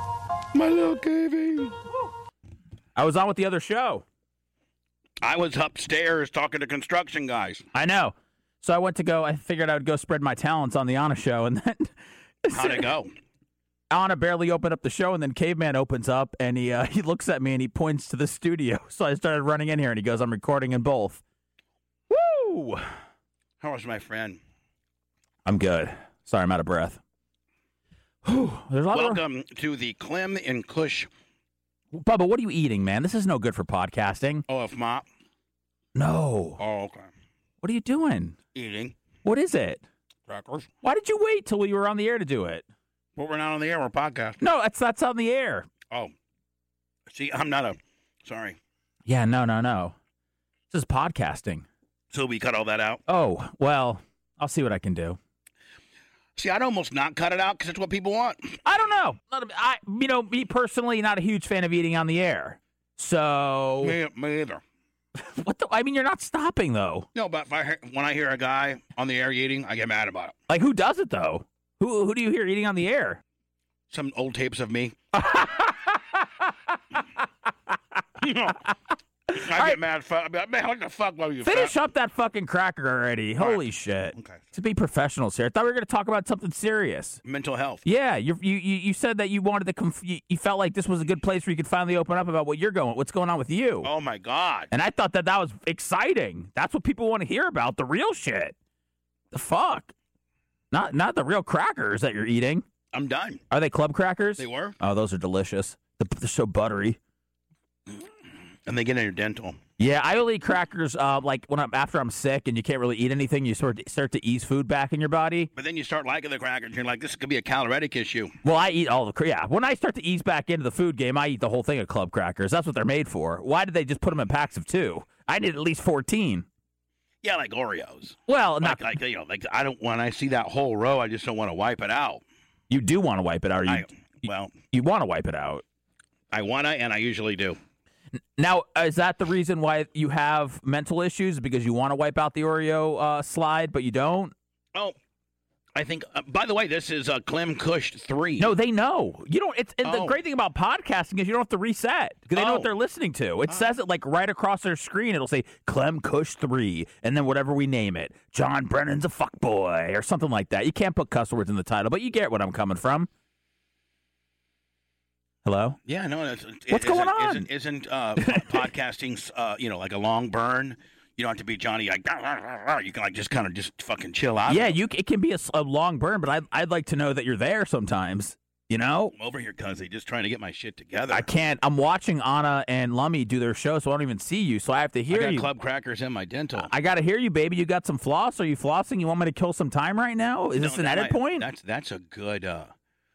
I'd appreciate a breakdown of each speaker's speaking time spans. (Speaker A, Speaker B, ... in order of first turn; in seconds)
Speaker A: 0.5-1.8, 5.2-7.7, 12.5-13.1, 23.6-24.4, 28.9-31.1, 34.5-35.0, 36.6-37.1, 38.5-39.0, 40.3-40.7, 43.2-44.4, 47.1-48.6, 52.1-53.0, 56.4-58.6, 63.8-64.6, 67.2-70.3, 73.9-75.0, 78.2-78.6, 79.3-81.8, 83.4-84.5, 87.2-87.8, 93.8-94.7, 102.9-103.4, 104.4-104.8, 108.7-109.6, 115.5-118.4, 127.2-132.2, 133.7-134.6, 136.3-137.6, 145.8-148.5, 149.8-150.2, 152.3-152.7, 165.8-174.8, 179.1-181.3, 185.1-186.7, 190.6-192.7
Speaker B: 3.0-4.0, 7.7-12.9, 13.9-21.2, 22.1-22.9, 25.4-27.0, 28.2-29.2, 31.9-34.5, 36.0-36.6, 37.6-38.4, 39.2-39.8, 40.8-42.6, 44.4-45.7, 49.1-50.0, 50.7-51.6, 53.1-55.2, 58.6-64.0, 65.2-67.1, 70.5-73.2, 75.2-76.3, 79.3-79.8, 81.4-87.2, 87.8-93.9, 94.7-98.5, 99.3-99.9, 100.7-102.7, 103.5-107.0, 109.8-115.5, 118.4-126.5, 128.3-128.8, 132.7-133.9, 134.7-135.6, 138.4-144.3, 148.4-163.1, 165.4-165.8, 166.7-167.5, 168.2-168.7, 174.5-179.1, 181.1-185.5, 186.5-191.5